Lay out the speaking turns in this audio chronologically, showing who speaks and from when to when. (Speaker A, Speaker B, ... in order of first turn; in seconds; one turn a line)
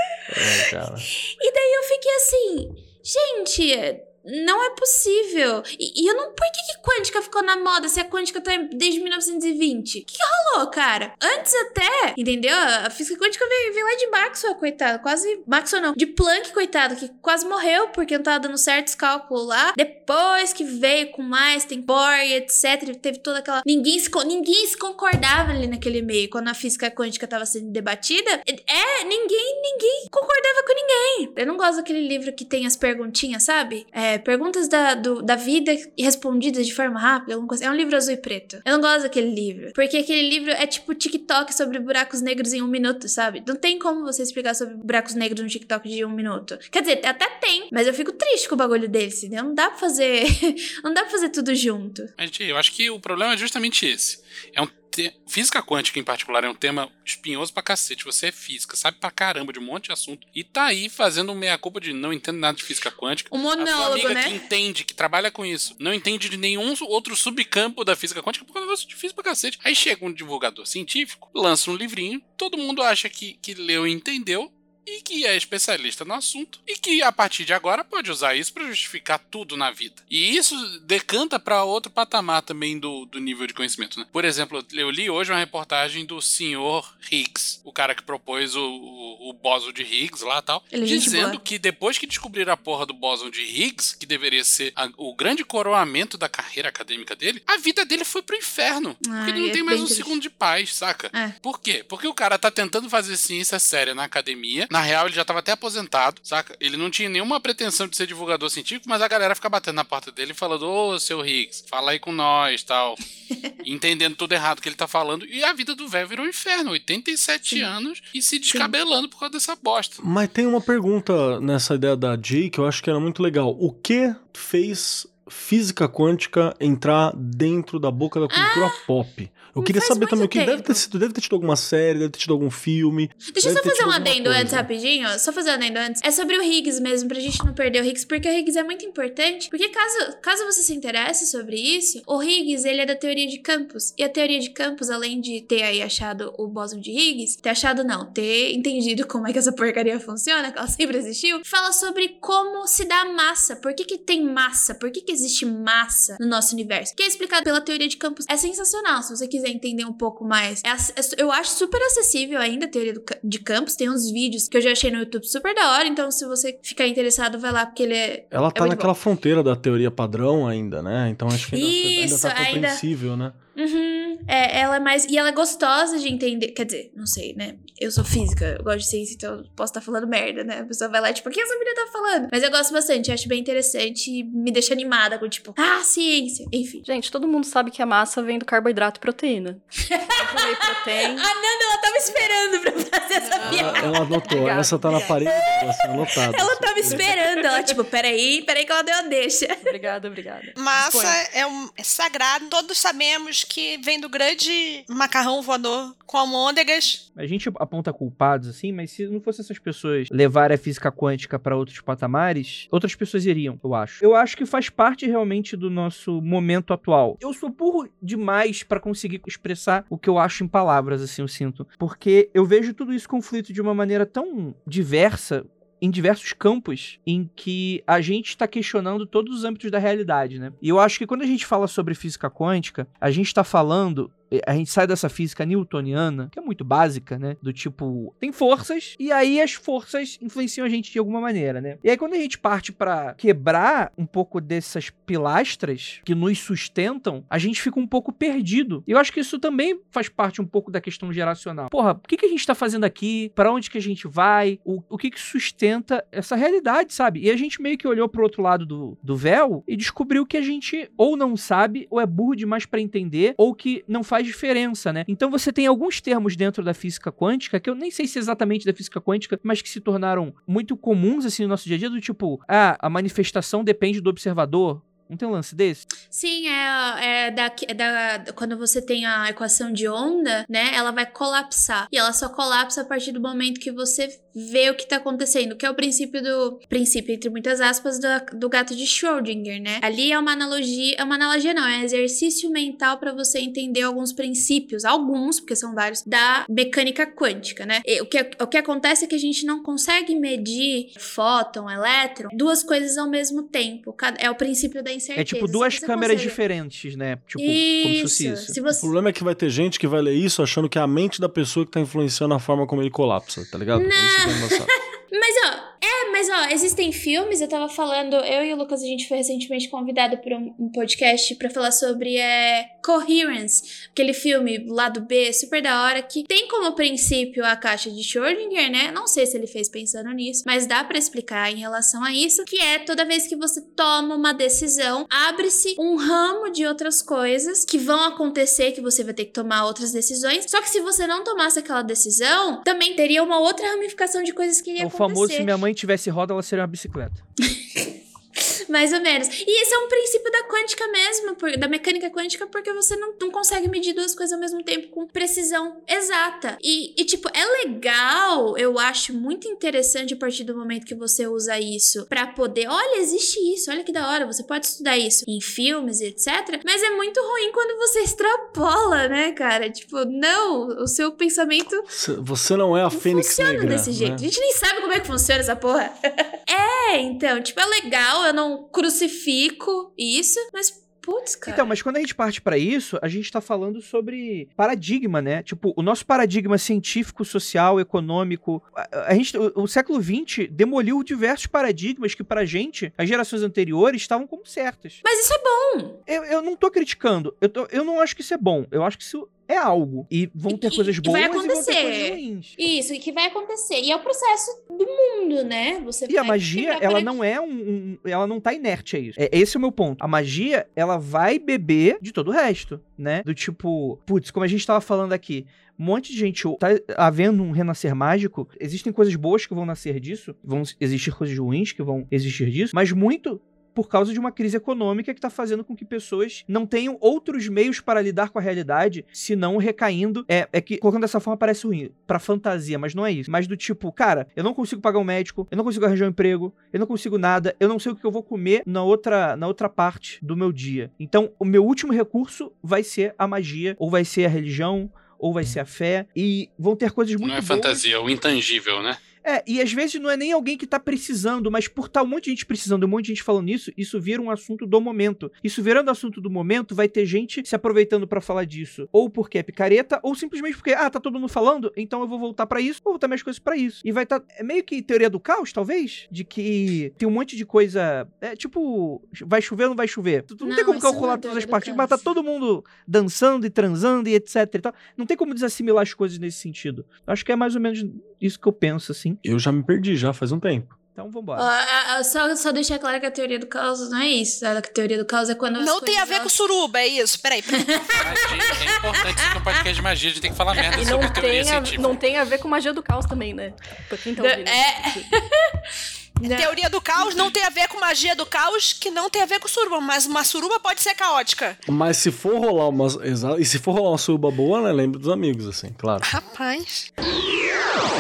Speaker A: 0.3-1.1
Speaker B: 1.4-52.1
Speaker C: 52.2-113.0
Speaker B: 63.3-64.4
Speaker B: 90.7-91.4
Speaker B: 99.0-100.2
Speaker C: 113.6-120.0
Speaker B: 118.5-118.7
Speaker A: 120.0-134.7
Speaker B: 128.3-128.8
Speaker B: 129.6-130.8
Speaker B: 133.3-168.9
Speaker A: 168.3-173.4
Speaker B: 171.5-172.8
Speaker B: 173.6-186.8
Speaker D: 186.8-189.6
Speaker B: 189.9-194.1
Speaker D: 190.2-191.3
Speaker E: 193.3-193.8
Speaker D: 193.4-195.2
Speaker A: 193.5-197.1
Speaker B: 194.9-199.8
Speaker D: 196.9-197.8
Speaker D: 199.6-201.2
Speaker E: 200.6-207.0
Speaker F: 207.2-275.9
Speaker B: 276.1-306.4
Speaker F: 305.2-308.6
Speaker B: 307.4-308.9
Speaker A: 308.8-314.7
Speaker B: 313.8-345.5
Speaker F: 344.8-347.2
Speaker B: 348.7-371.9
Speaker A: 371.9-374.3
Speaker B: 372.9-375.9
Speaker B: 376.5-381.7
Speaker F: 381.5-395.0
Speaker B: 395.0-396.0
Speaker F: 396.1-402.6
Speaker B: 400.5-407.1
Speaker F: 406.1-447.8
Speaker C: 447.2-449.0
Speaker F: 449.2-479.2
Speaker B: 470.4-472.0
Speaker A: 479.2-480.8
Speaker F: 480.9-481.5
Speaker B: 481.4-486.3
Speaker E: 485.6-487.7
Speaker B: 487.6-489.6
Speaker C: 488.0-491.9
Speaker B: 490.6-491.2
Speaker D: 490.7-495.1
Speaker B: 494.2-495.6
Speaker B: 496.2-497.3
Speaker E: 496.3-501.6
Speaker A: 501.7-506.1
Speaker E: 506.0-506.9